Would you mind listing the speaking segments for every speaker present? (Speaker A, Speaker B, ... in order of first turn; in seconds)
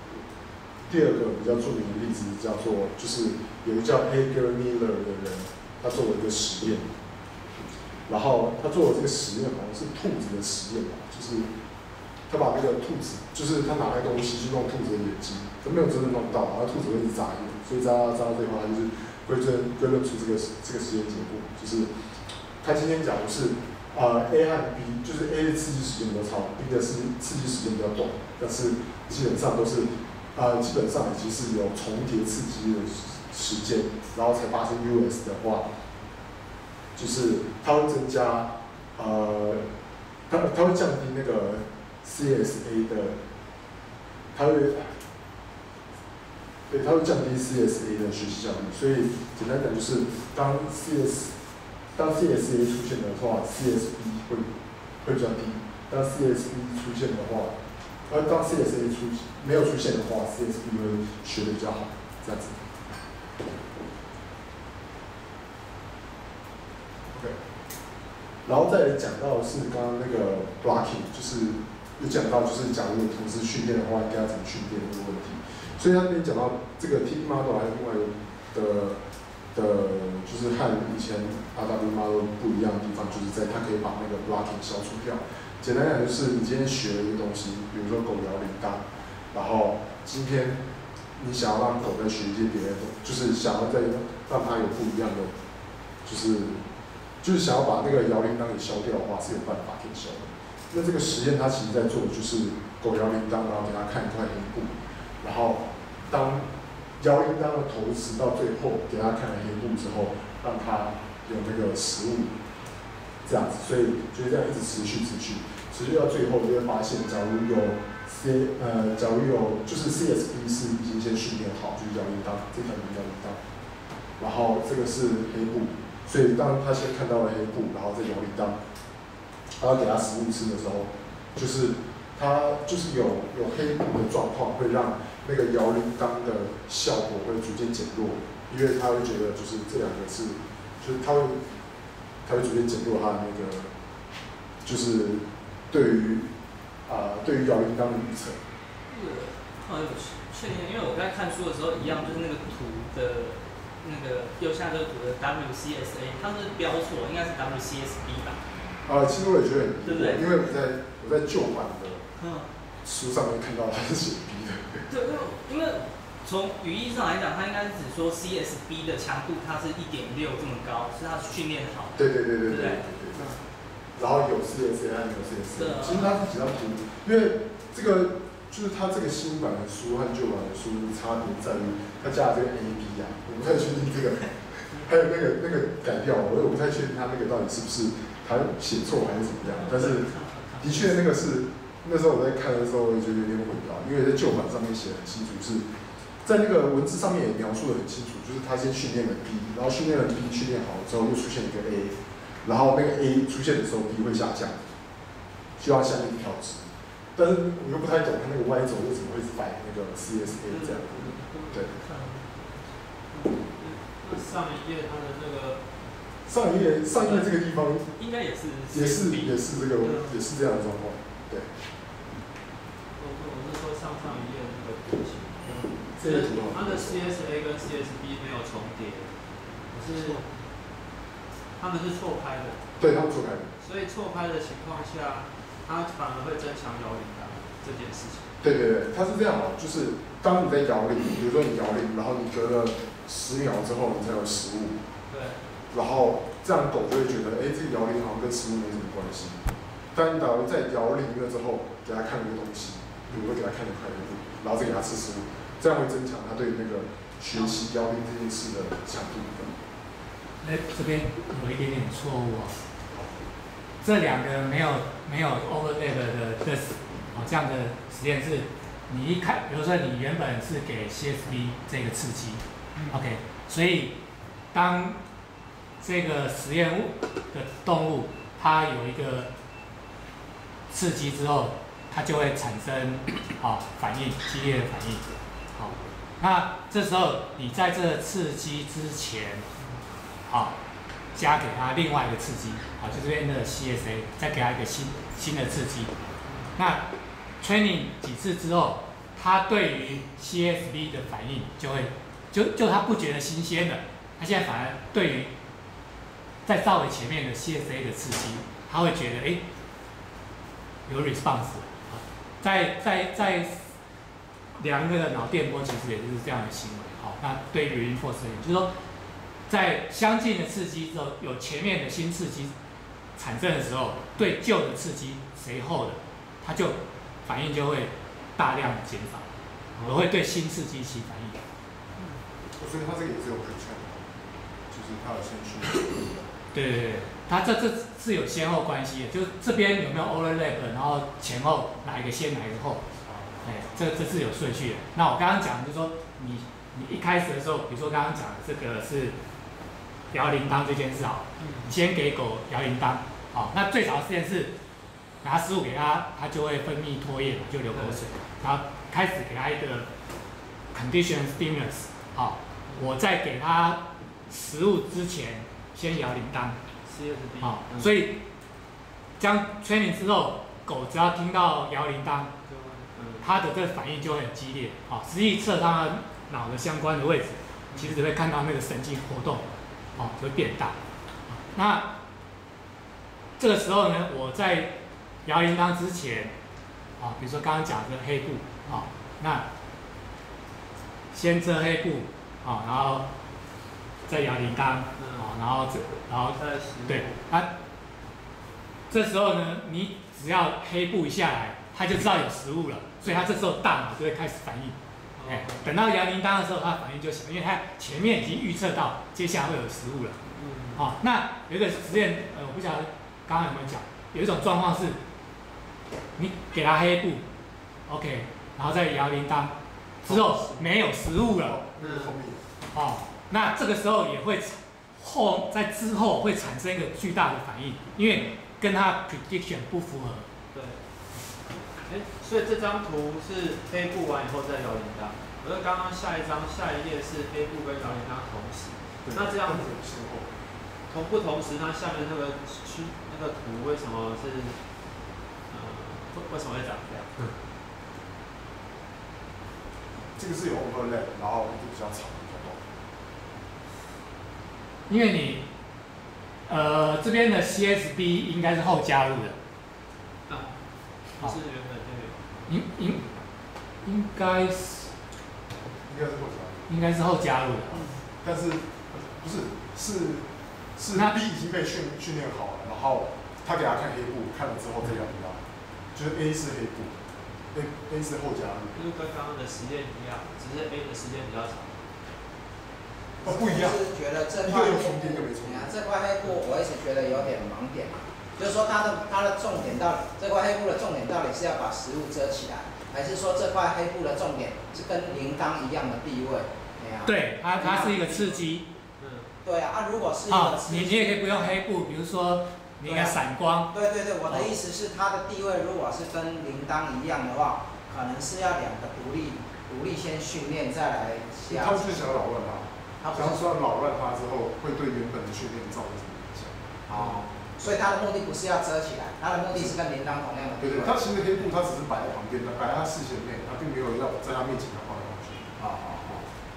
Speaker A: 0.9-6.9, 8.1-11.5, 12.3-21.9, 22.6-35.7, 37.0-39.6, 40.3-43.2, 44.3-45.0, 46.7-51.3, 52.0-54.5, 55.0-57.5, 58.1-62.6, 68.5-79.0, 79.5-90.6, 91.2-95.3, 96.0-96.6, 97.2-106.5, 107.0-112.3, 113.2-123.4, 124.2-128.6, 129.6-141.4, 142.2-143.7, 144.6-146.3, 146.9-148.4, 158.9-162.0, 162.8-164.8, 172.0-173.4, 174.0-195.7, 196.2-204.6, 205.6-211.7, 216.3-217.9, 218.7-221.5, 225.5-227.0, 232.8-233.5, 238.4-244.8, 245.7-249.4, 249.9-259.5, 332.6-334.1, 334.7-336.2, 343.1-343.7, 421.3-422.4, 439.1-440.3, 450.2-452.6, 465.9-466.7, 468.2-470.3, 470.8-475.4, 475.9-477.0, 477.5-478.8, 483.2-483.8, 484.4-485.7, 511.5-517.1, 520.6-526.3
Speaker B: 148.9-158.4, 159.8-160.5, 162.2-162.5, 164.9-172.8, 175.6-176.2, 189.8-190.7, 218.0-220.1
Speaker C: 210.5-212.5, 213.1-215.6, 223.0-229.1, 229.7-230.3, 231.6-232.6, 233.6-238.3, 245.1-245.4, 272.8-273.0, 296.2-296.5, 351.4-351.7, 357.7-358.0, 366.9-367.9, 372.5-373.3, 377.7-378.0, 395.0-395.3, 396.4-397.2, 405.2-405.7, 410.4-410.9, 420.1-420.7, 421.8-422.1, 430.5-430.8, 431.8-439.7, 440.9-444.6, 445.5-447.4, 460.3-462.2, 467.8-468.0, 478.7-481.8, 499.0-499.3, 516.9-517.2
Speaker D: 260.4-262.6, 263.8-274.0, 274.5-275.0, 275.8-279.3, 280.7-289.5, 290.3-290.6, 291.1-295.9, 296.6-296.9, 297.4-305.3, 306.4-309.4, 310.9-313.6, 314.6-318.7, 319.5-322.5, 323.2-329.3, 329.8-331.4, 336.5-342.9, 343.4-349.2, 350.1-354.6, 355.2-359.9, 360.7-366.6, 367.4-368.2, 369.2-372.3, 373.2-381.9, 383.4-386.4, 387.0-389.5, 391.1-393.1, 394.1-397.5, 398.9-410.2, 410.8-415.0, 416.2-417.3, 417.9-421.6, 422.7-430.3, 454.9-455.5, 456.5-459.4, 462.5-463.0, 463.8-464.9, 466.7-467.9, 497.1-498.7, 500.3-503.7, 504.3-504.5
Speaker E: 483.2-498.4, 499.4-501.6, 502.8-503.2, 503.7-512.1, 513.0-513.4, 516.9-521.0